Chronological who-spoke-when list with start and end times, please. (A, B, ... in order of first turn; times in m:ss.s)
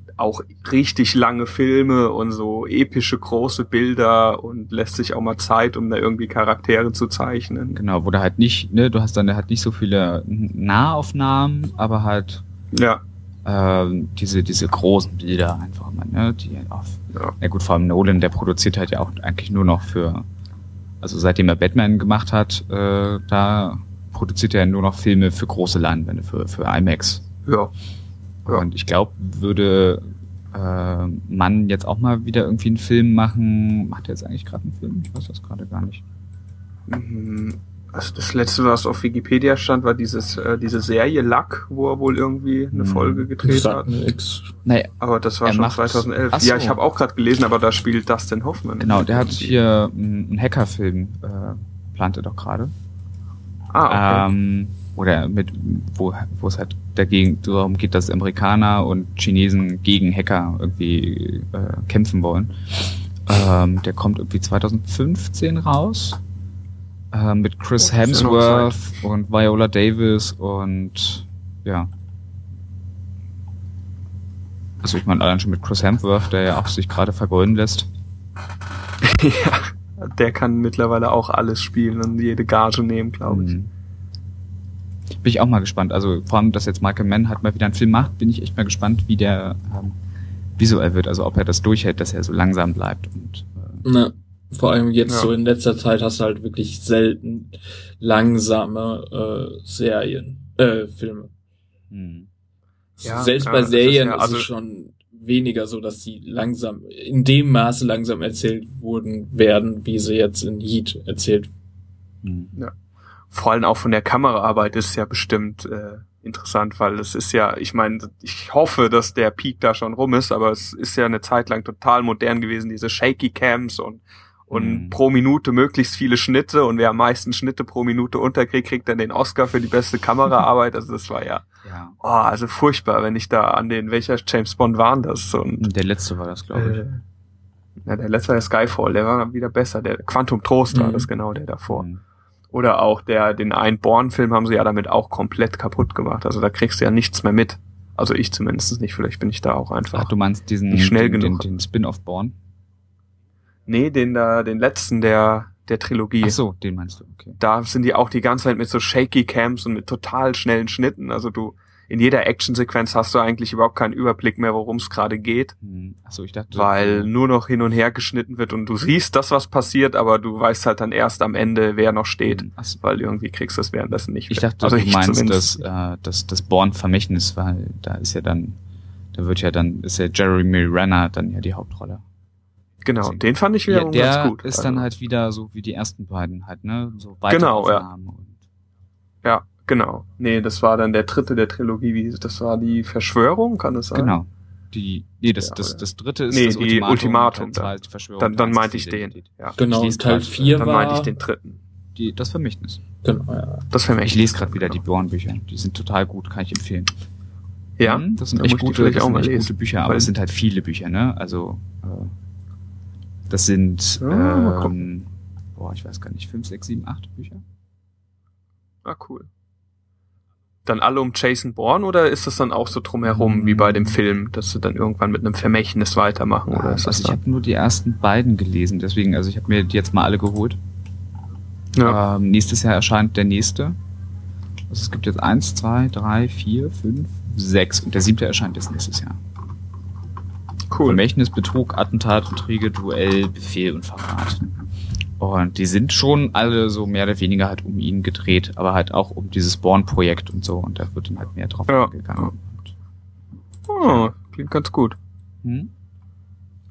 0:00.2-0:07.8 A
0:07.7-0:12.4 B
0:12.7-0:13.0 A
0:13.4-0:20.3 B
0:21.0-0:27.2 B
0:27.5-0:27.7 A
0:28.5-0:36.0 B
0:36.9-0:43.9 A
0:42.7-0:43.3 B
0:43.4-0:44.5 C
0:44.6-0:46.8 B
0:45.0-0:49.6 A
0:48.8-0:52.7 B
0:53.7-0:54.3 A
0:53.9-1:02.7 B
1:03.2-1:06.2 B
1:07.1-1:11.9 B
1:07.9-1:08.8 A
1:14.8-1:17.9 B
1:19.0-1:23.5 A
1:23.3-1:23.7 B
1:25.2-1:30.0 B
1:30.6-1:33.9 B
1:33.8-1:41.3 C
1:35.1-1:35.3 A
1:41.9-1:42.3 B
1:43.0-1:51.5 C
1:43.0-1:44.5 A
1:52.2-1:52.5 B
1:53.3-2:11.5 A
2:04.5-2:05.0 B
2:11.6-2:12.0 B
2:12.0-2:15.7 A
2:15.6-2:16.9 B
2:16.5-2:17.0 A
2:17.8-2:21.9 A
2:20.7-2:21.1 C
2:21.7-2:22.0 B
2:22.5-2:30.1 A
2:29.9-2:32.4 B
2:30.7-2:31.5 A
2:33.7-2:36.4 A
2:36.2-2:37.4 B
2:37.4-2:45.5 A
2:45.6-2:47.1 B
2:46.5-2:55.6 A
2:52.3-2:52.8 B
2:54.3-2:58.6 B
2:59.1-3:02.0 B
3:02.8-3:04.9 A
3:03.0-3:08.4 B
3:07.3-3:07.8 A
3:09.2-3:14.1 A
3:13.9-3:20.7 B
3:15.4-3:19.6 A
3:19.6-3:21.1 C
3:20.5-3:21.6 A
3:22.0-3:22.8 B
3:23.0-3:23.7 C
3:23.7-3:24.8 A
3:24.0-3:26.9 B
3:27.8-3:30.1 A
3:27.8-3:32.1 B
3:33.3-3:37.4 B
3:34.0-3:34.8 A
3:38.8-3:39.3 A
3:40.7-3:47.2 A
3:43.1-3:44.0 B
3:46.5-3:50.6 B
3:51.7-3:52.0 A
3:51.8-3:53.8 B
3:54.7-3:59.2 B
4:00.7-4:01.0 A
4:00.8-4:04.6 B
4:05.2-4:12.7 B
4:11.7-4:12.3 A
4:13.7-4:15.0 A
4:15.4-4:15.7 B